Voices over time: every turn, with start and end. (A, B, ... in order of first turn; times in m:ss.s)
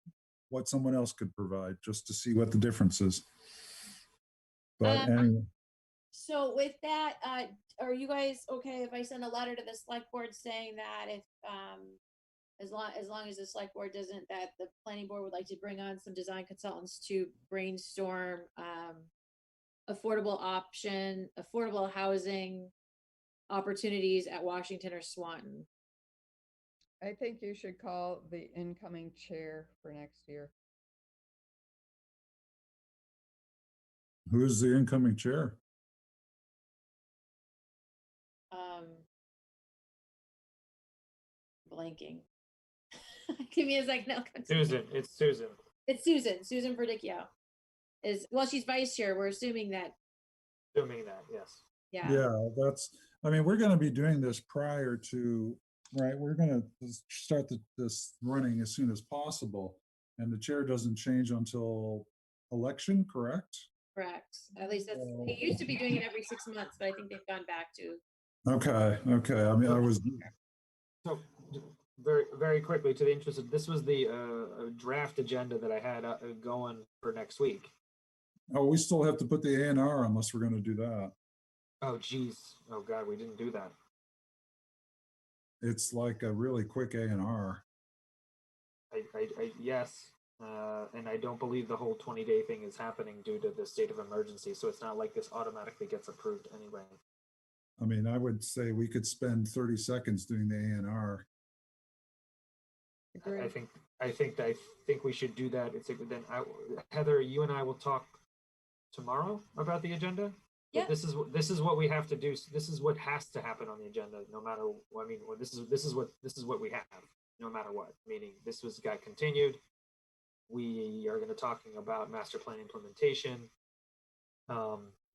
0:00.5-0:03.2 A
0:04.8-0:05.5 A
0:04.8-0:05.3 B
0:06.1-0:12.0 B
0:12.6-0:19.1 B
0:19.9-0:22.7 B
0:23.5-0:25.7 B
0:27.0-0:30.5 C
0:34.3-0:35.6 A
0:38.5-0:39.0 B
0:41.6-0:42.2 B
0:43.4-0:44.8 B
0:44.5-0:45.6 D
0:45.8-0:47.3 B
0:48.0-0:49.9 B
0:50.7-0:51.6 D
0:51.9-0:52.2 B
0:52.0-1:03.7 A
1:03.9-1:08.0 B
1:04.9-1:05.4 A
1:08.5-1:10.3 A
1:11.0-1:17.7 D
1:18.5-1:21.1 A
1:21.8-1:23.7 D
1:25.6-1:27.6 A
1:28.9-1:37.0 D
1:37.8-1:41.2 A
1:43.1-1:43.5 C
1:43.2-1:48.2 D
1:48.9-1:59.6 D
2:00.5-2:03.5 D
2:04.5-2:04.9 D